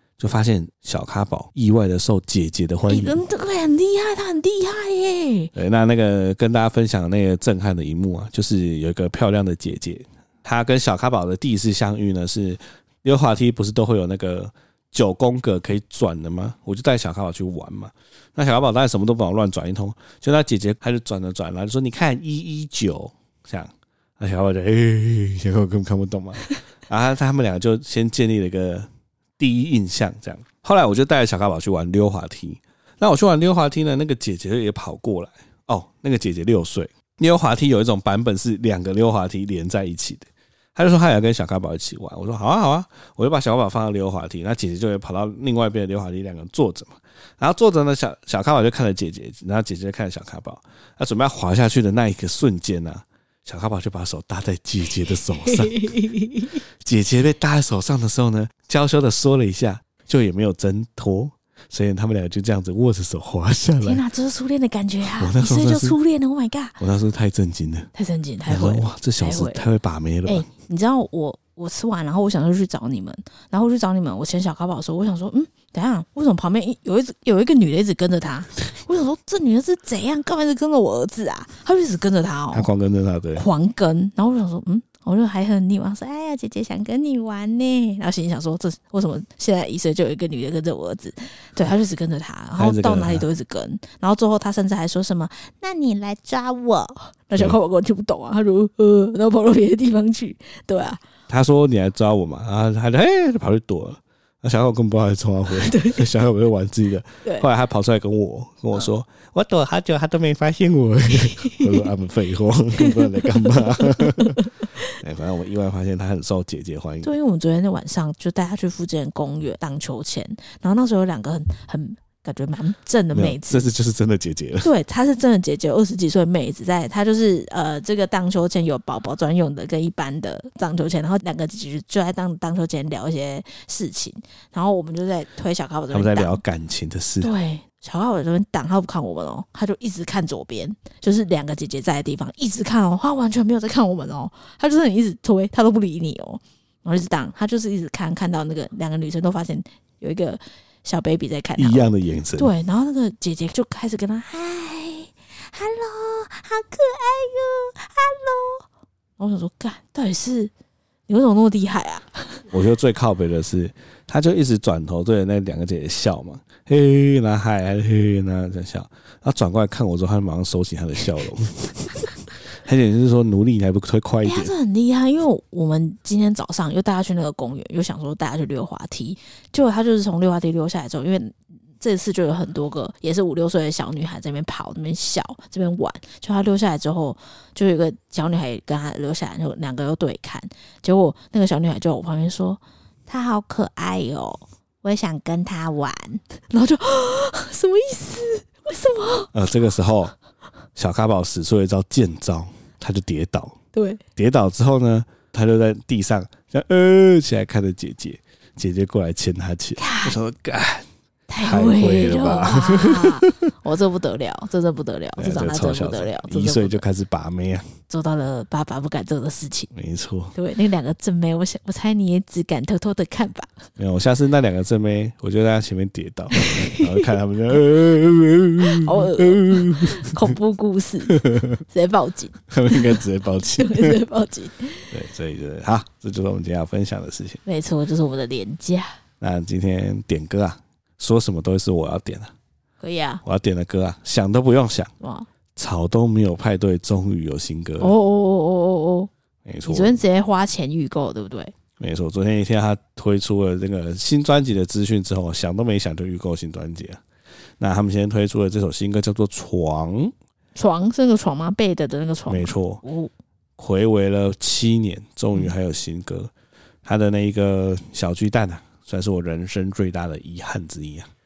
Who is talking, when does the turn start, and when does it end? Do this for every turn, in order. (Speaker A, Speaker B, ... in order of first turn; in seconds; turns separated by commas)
Speaker A: 0.2-3.2, Speaker B: 2.9-5.5, Speaker A: 5.5-56.0, Speaker B: 55.4-56.6, Speaker A: 56.8-64.0, Speaker B: 63.8-66.8, Speaker A: 65.2-66.0, Speaker A: 66.8-67.9, Speaker B: 67.9-69.7, Speaker A: 68.5-70.5, Speaker B: 70.2-82.7, Speaker A: 82.5-83.5, Speaker B: 83.3-101.0, Speaker A: 92.6-93.2, Speaker A: 101.3-117.1, Speaker B: 105.7-106.0, Speaker B: 111.4-111.7, Speaker B: 112.8-115.0, Speaker B: 117.0-123.7, Speaker A: 123.1-124.7, Speaker B: 124.6-136.4, Speaker A: 135.9-137.3, Speaker B: 137.2-158.6, Speaker A: 151.6-152.5, Speaker B: 159.2-160.5, Speaker B: 161.1-162.4, Speaker A: 162.5-172.0, Speaker A: 172.6-174.5, Speaker B: 174.2-199.3, Speaker A: 199.3-200.1, Speaker A: 200.8-203.6, Speaker B: 203.7-204.0, Speaker A: 204.2-210.8, Speaker B: 209.8-210.2, Speaker B: 211.3-216.8, Speaker A: 211.4-213.4, Speaker A: 215.2-217.6, Speaker B: 217.9-219.7, Speaker A: 219.7-220.3, Speaker B: 220.3-223.6, Speaker A: 223.8-230.3, Speaker B: 226.3-227.1, Speaker B: 228.6-233.0, Speaker A: 231.1-231.6, Speaker A: 232.5-234.0, Speaker B: 233.5-234.9, Speaker A: 234.9-237.4, Speaker B: 237.4-239.0, Speaker A: 239.2-242.3, Speaker B: 242.8-243.2, Speaker A: 243.2-244.9, Speaker B: 245.0-245.3, Speaker A: 245.6-247.9, Speaker B: 247.8-249.1, Speaker A: 249.4-250.0, Speaker B: 249.6-251.5, Speaker A: 251.8-257.0, Speaker A: 257.6-260.1, Speaker B: 260.6-263.1, Speaker A: 262.3-262.8, Speaker A: 263.6-266.3, Speaker A: 266.8-271.1